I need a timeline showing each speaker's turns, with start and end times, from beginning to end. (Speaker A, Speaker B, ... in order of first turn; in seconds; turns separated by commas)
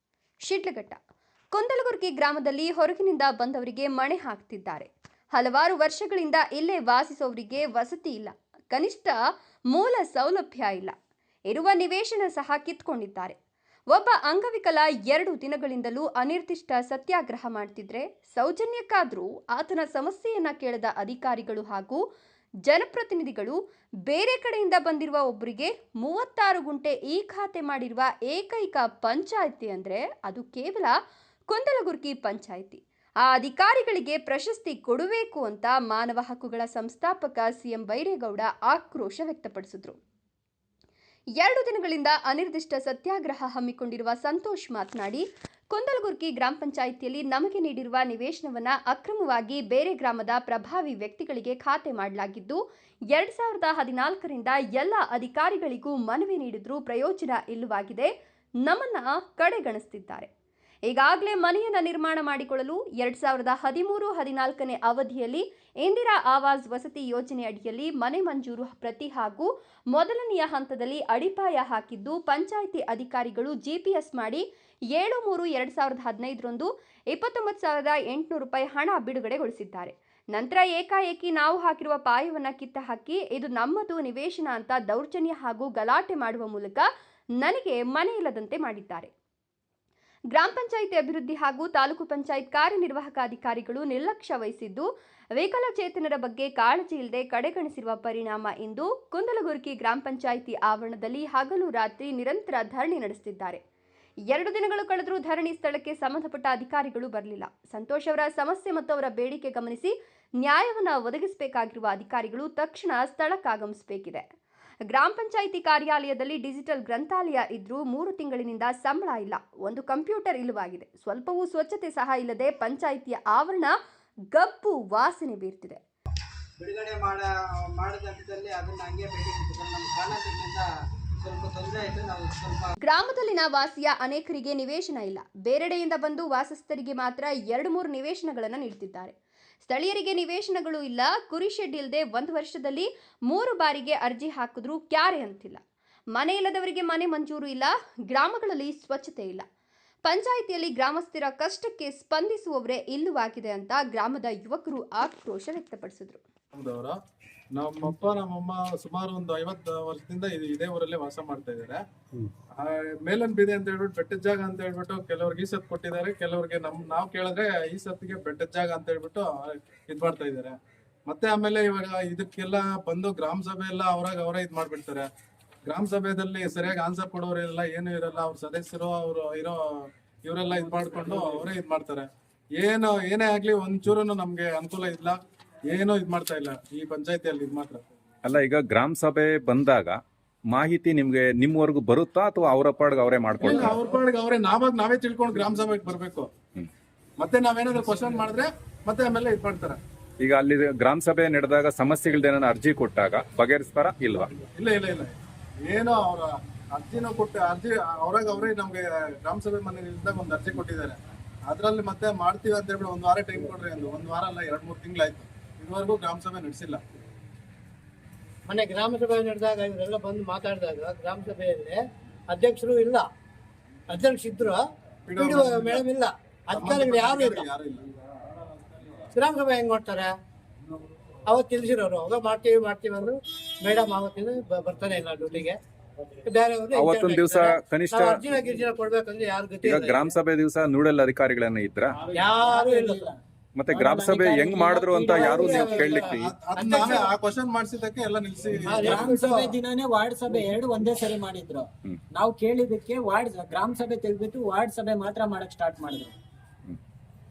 Speaker A: 0.4-1.0, Speaker A: 1.5-9.1, Speaker A: 9.7-10.9, Speaker A: 11.5-13.4, Speaker A: 13.9-22.0, Speaker A: 22.6-30.9, Speaker A: 31.5-40.0, Speaker A: 41.4-52.6, Speaker A: 53.1-58.1, Speaker A: 58.6-60.3, Speaker A: 60.9-86.9, Speaker A: 87.4-89.1, Speaker A: 90.3-103.6, Speaker A: 104.3-114.2, Speaker A: 114.9-123.8, Speaker A: 124.3-125.8, Speaker B: 126.6-130.7, Speaker B: 131.2-132.7, Speaker A: 132.8-145.6, Speaker A: 146.2-149.4, Speaker A: 150.1-156.2, Speaker C: 156.5-157.0, Speaker C: 157.6-161.8, Speaker C: 162.5-170.6, Speaker C: 171.1-175.1, Speaker C: 175.7-179.6, Speaker C: 180.2-185.2, Speaker C: 185.7-187.8, Speaker D: 188.2-190.0, Speaker D: 190.5-193.8, Speaker C: 193.4-196.3, Speaker C: 197.2-199.8, Speaker D: 200.2-204.4, Speaker C: 204.5-216.8, Speaker E: 218.5-221.8, Speaker E: 222.3-223.1, Speaker E: 223.9-224.6, Speaker C: 225.1-225.8, Speaker E: 225.2-227.5, Speaker C: 226.5-227.8, Speaker E: 229.1-230.1, Speaker E: 231.3-235.6, Speaker E: 236.2-240.1, Speaker D: 236.7-238.5, Speaker D: 239.6-242.0, Speaker F: 242.1-246.0, Speaker E: 242.1-243.1, Speaker D: 243.6-246.3, Speaker E: 245.1-247.1, Speaker C: 245.5-249.1, Speaker E: 248.6-249.5, Speaker F: 248.8-256.1